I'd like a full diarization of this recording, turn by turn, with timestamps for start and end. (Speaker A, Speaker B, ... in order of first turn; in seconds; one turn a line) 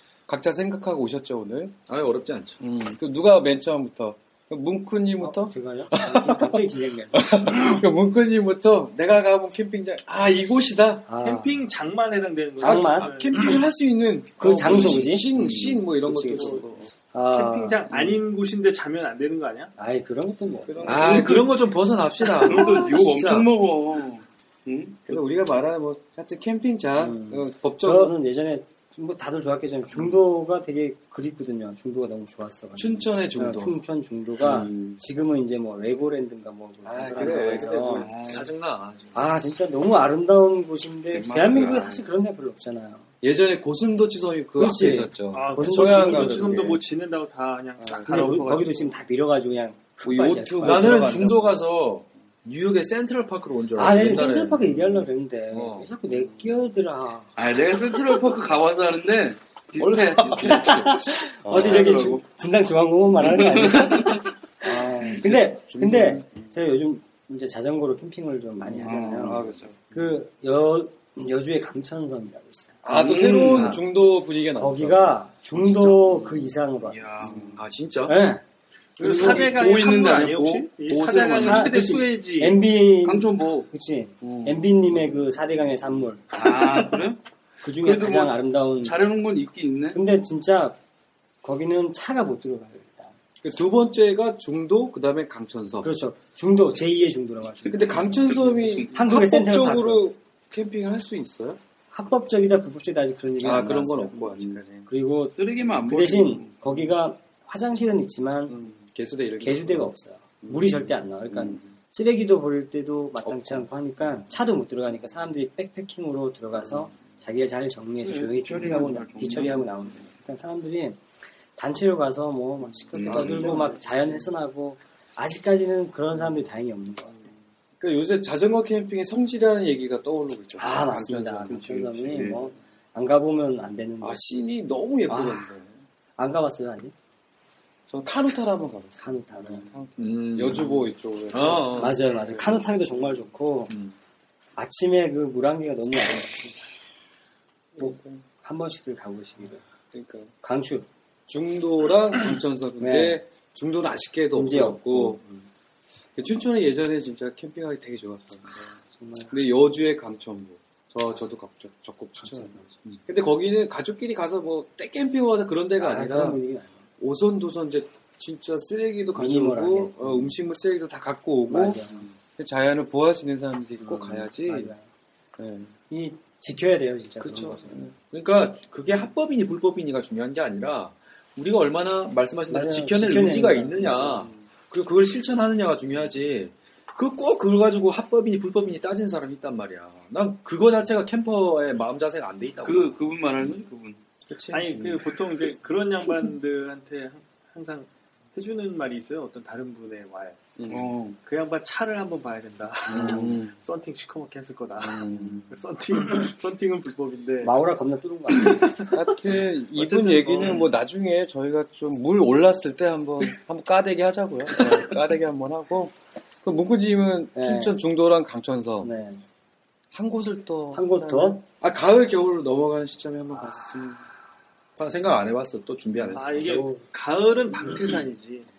Speaker A: 0.3-1.8
Speaker B: 1.9-2.6
Speaker A: 2.6-11.1
Speaker C: 5.2-7.6
Speaker C: 11.1-11.6
Speaker D: 11.2-13.6
Speaker C: 12.6-13.1
Speaker A: 12.6-16.9
Speaker C: 14.4-15.3
Speaker E: 15.4-15.8
Speaker C: 16.1-16.6
Speaker D: 16.3-16.6
Speaker C: 17.1-18.1
Speaker D: 17.3-19.7
Speaker C: 19.8-21.3
Speaker A: 20.6-21.5
Speaker B: 20.8-23.5
Speaker E: 21.1-21.4
Speaker E: 22.3-25.1
Speaker A: 25.1-28.1
Speaker C: 27.0-38.1
Speaker A: 32.8-33.7
Speaker E: 34.4-35.0
Speaker A: 36.8-38.2
Speaker B: 37.1-39.4
Speaker E: 38.0-38.5
Speaker C: 39.1-43.0
Speaker E: 41.1-42.0
Speaker A: 43.2-46.8
Speaker C: 44.6-46.6
Speaker D: 45.3-48.9
Speaker A: 47.8-48.4
Speaker C: 48.0-51.1
Speaker A: 50.0-51.6
Speaker B: 50.6-55.9
Speaker C: 53.7-57.3
Speaker A: 56.1-56.4
Speaker E: 57.4-62.2
Speaker C: 60.5-73.8
Speaker A: 61.4-62.1
Speaker E: 63.2-64.2
Speaker A: 64.6-66.5
Speaker E: 68.7-69.6
Speaker A: 69.2-69.8
Speaker A: 72.8-76.5
Speaker E: 73.2-73.8
Speaker C: 74.6-77.3
Speaker E: 76.8-77.6
Speaker A: 77.2-77.6
Speaker B: 77.5-78.2
Speaker C: 78.0-78.4
Speaker D: 79.0-82.6
Speaker A: 79.0-79.5
Speaker E: 79.0-81.7
Speaker C: 81.4-86.9
Speaker E: 83.0-83.7
Speaker A: 84.2-84.5
Speaker E: 86.3-87.2
Speaker C: 87.6-89.0
Speaker E: 87.8-90.0
Speaker C: 89.9-90.8
Speaker C: 91.4-93.1
Speaker A: 93.4-95.9
Speaker C: 95.8-98.3
Speaker A: 97.7-101.6
Speaker E: 97.7-99.2
Speaker C: 98.9-100.0
Speaker C: 101.9-104.2
Speaker A: 103.4-104.9
Speaker C: 104.9-108.5
Speaker E: 105.3-106.9
Speaker A: 108.5-109.9
Speaker C: 109.4-121.0
Speaker A: 110.4-111.6
Speaker A: 113.2-113.7
Speaker E: 118.0-120.1
Speaker C: 121.5-127.2
Speaker E: 122.9-123.7
Speaker A: 123.1-123.8
Speaker A: 127.8-132.3
Speaker C: 130.6-134.2
Speaker E: 131.5-132.4
Speaker A: 134.0-135.7
Speaker C: 135.1-135.5
Speaker C: 136.2-136.9
Speaker A: 137.9-142.6
Speaker C: 139.0-139.7
Speaker B: 140.0-142.0
Speaker C: 141.8-143.7
Speaker C: 144.6-146.6
Speaker A: 147.8-148.2
Speaker C: 147.8-149.6
Speaker A: 149.9-150.3
Speaker C: 150.4-150.9
Speaker A: 151.3-155.2
Speaker C: 152.8-153.2
Speaker C: 154.3-155.4
Speaker A: 156.2-158.7
Speaker C: 158.9-159.3
Speaker A: 159.3-166.4
Speaker C: 162.2-162.7
Speaker C: 165.8-166.7
Speaker A: 167.0-174.7
Speaker C: 169.2-170.3
Speaker C: 171.5-172.1
Speaker C: 173.8-174.8
Speaker A: 175.4-175.7
Speaker C: 175.9-177.9
Speaker A: 177.2-177.9
Speaker B: 178.1-193.1
Speaker C: 182.5-184.3
Speaker E: 192.6-194.0
Speaker B: 194.3-194.9
Speaker D: 194.5-200.4
Speaker A: 200.6-200.9
Speaker E: 200.7-201.2
Speaker D: 201.2-207.6
Speaker A: 202.9-203.5
Speaker E: 202.9-203.3
Speaker A: 204.8-205.4
Speaker C: 207.4-208.8
Speaker D: 208.4-210.7
Speaker A: 208.9-218.9
Speaker C: 217.3-217.8
Speaker C: 218.8-219.2
Speaker A: 219.9-224.0
Speaker C: 220.7-221.4
Speaker B: 224.8-226.6
Speaker D: 226.1-228.5
Speaker C: 226.4-226.8